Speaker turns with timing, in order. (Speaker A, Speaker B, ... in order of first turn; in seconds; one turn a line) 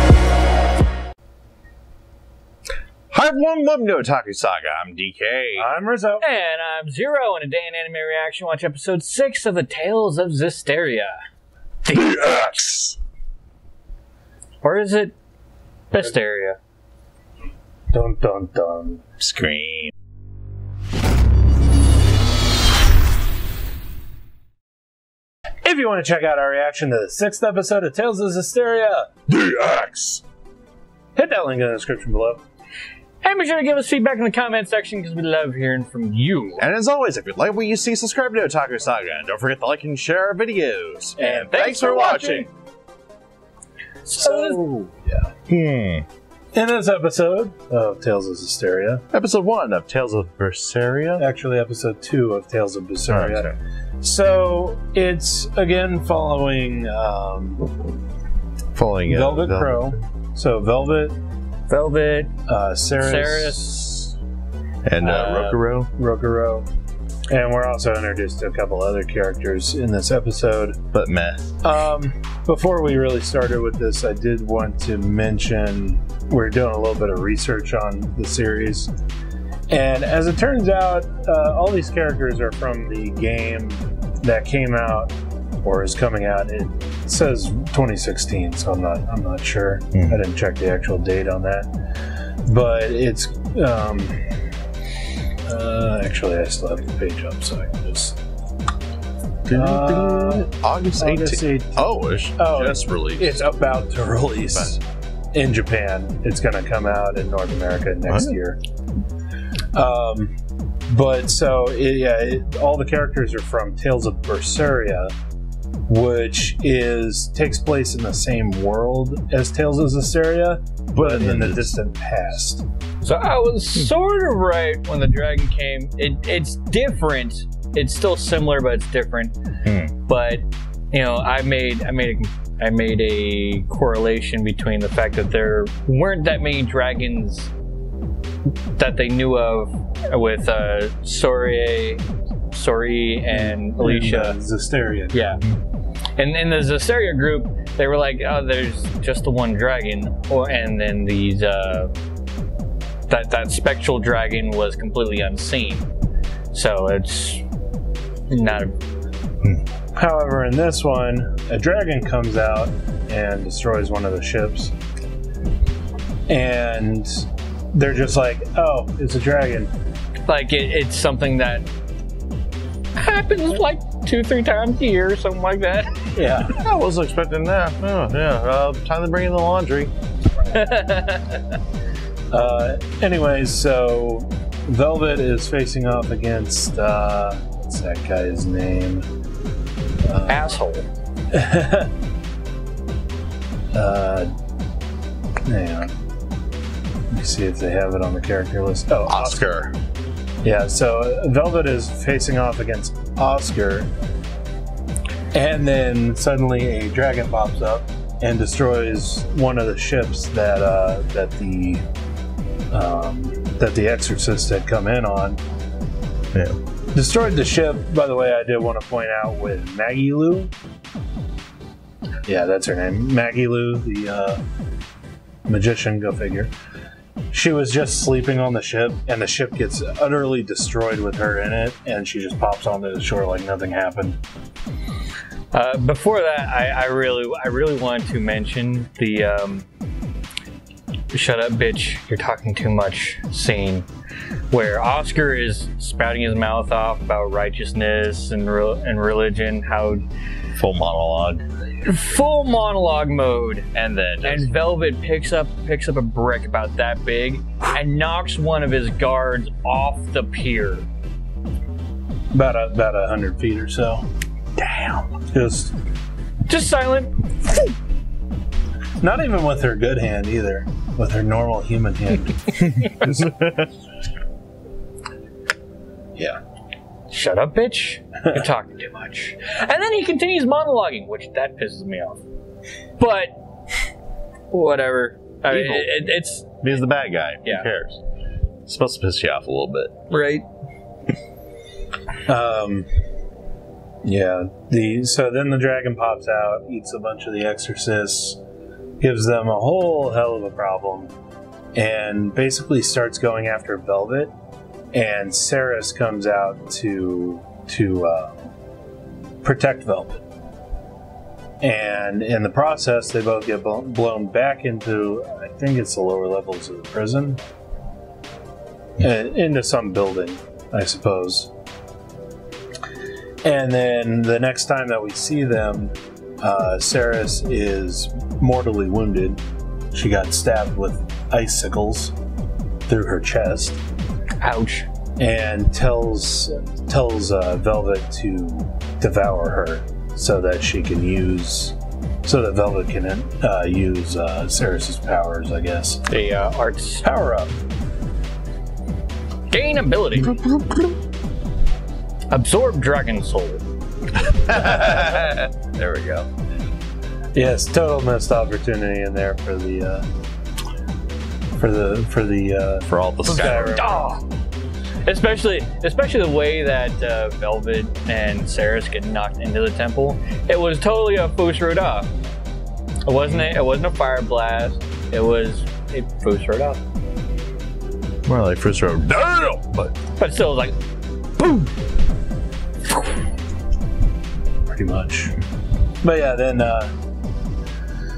Speaker A: 3.1-5.7
Speaker B: 5.5-6.2
Speaker C: 6.2-11.2
Speaker A: 11.9-12.9
Speaker C: 14.6-15.1
Speaker C: 15.9-16.6
Speaker B: 17.9-19.0
Speaker A: 19.2-19.9
Speaker B: 25.6-29.1
Speaker A: 29.3-30.2
Speaker B: 31.1-32.4
Speaker C: 33.2-36.6
Speaker A: 36.6-42.5
Speaker B: 41.2-41.6
Speaker C: 41.5-42.5
Speaker C: 44.0-44.6
Speaker B: 44.1-45.3
Speaker A: 45.5-46.0
Speaker B: 46.5-49.0
Speaker A: 49.1-51.2
Speaker B: 51.2-57.7
Speaker A: 53.1-53.5
Speaker A: 58.7-59.9
Speaker B: 59.1-61.2
Speaker C: 61.7-62.3
Speaker B: 62.5-63.6
Speaker C: 63.0-64.1
Speaker A: 64.8-65.9
Speaker C: 65.0-65.6
Speaker B: 66.0-66.7
Speaker B: 67.3-70.8
Speaker A: 70.9-71.4
Speaker B: 71.6-78.9
Speaker B: 79.7-85.1
Speaker B: 85.6-91.7
Speaker A: 89.9-90.2
Speaker B: 92.5-94.2
Speaker B: 95.5-98.2
Speaker A: 99.5-103.4
Speaker B: 99.5-101.8
Speaker B: 102.3-104.8
Speaker A: 104.5-104.8
Speaker B: 105.3-108.6
Speaker A: 108.1-108.3
Speaker B: 109.7-110.3
Speaker B: 110.9-115.1
Speaker B: 115.9-122.6
Speaker A: 120.9-121.7
Speaker C: 123.0-129.3
Speaker A: 129.6-129.9
Speaker C: 130.1-137.5
Speaker C: 138.8-144.4
Speaker B: 143.3-145.2
Speaker C: 145.1-145.4
Speaker C: 146.2-151.9
Speaker C: 153.1-155.9
Speaker C: 156.5-157.4
Speaker C: 158.3-158.7
Speaker B: 159.9-164.7
Speaker B: 166.3-169.7
Speaker C: 170.3-171.7
Speaker C: 172.9-175.9
Speaker B: 176.1-176.5
Speaker A: 176.6-179.9
Speaker C: 180.5-181.4
Speaker B: 182.3-189.0
Speaker B: 190.1-190.4
Speaker C: 190.3-190.8
Speaker B: 191.3-191.9
Speaker B: 193.7-194.3
Speaker B: 195.4-195.9
Speaker B: 197.1-199.4
Speaker A: 199.1-199.7
Speaker B: 200.4-203.9
Speaker B: 205.3-211.8
Speaker B: 212.7-215.4
Speaker B: 216.9-220.5
Speaker B: 222.2-224.4
Speaker B: 225.5-226.5
Speaker B: 227.3-234.2
Speaker C: 235.5-239.7
Speaker C: 241.1-243.9
Speaker C: 244.5-250.0
Speaker A: 250.6-251.4
Speaker C: 251.8-253.7
Speaker A: 253.7-254.5
Speaker C: 254.2-260.9
Speaker B: 262.3-264.1
Speaker B: 265.1-265.7
Speaker C: 266.5-267.1
Speaker B: 269.0-272.8
Speaker A: 273.0-273.7
Speaker C: 277.1-282.2
Speaker C: 283.0-283.4
Speaker C: 284.5-286.5
Speaker A: 285.5-286.0
Speaker A: 286.6-288.0
Speaker A: 288.7-289.9
Speaker C: 290.1-290.4
Speaker B: 292.2-292.9
Speaker B: 294.0-298.4
Speaker B: 299.0-301.1
Speaker B: 301.7-304.3
Speaker B: 304.9-308.4
Speaker B: 309.4-310.2
Speaker B: 311.6-317.4
Speaker B: 319.0-321.5
Speaker B: 323.4-329.4
Speaker B: 329.9-332.1
Speaker B: 332.9-333.8
Speaker C: 334.4-334.9
Speaker B: 335.2-346.0
Speaker C: 346.1-347.1
Speaker B: 347.0-347.5
Speaker C: 349.5-350.4
Speaker A: 350.3-350.9
Speaker C: 352.3-353.6
Speaker A: 354.2-356.3
Speaker B: 357.3-360.1
Speaker B: 361.6-364.1
Speaker A: 362.9-363.8
Speaker C: 363.3-364.2
Speaker C: 365.1-372.1
Speaker C: 373.0-376.8
Speaker A: 373.2-373.5
Speaker A: 378.3-379.9
Speaker C: 380.2-380.7
Speaker C: 381.4-381.7
Speaker B: 384.7-385.3
Speaker B: 386.0-386.9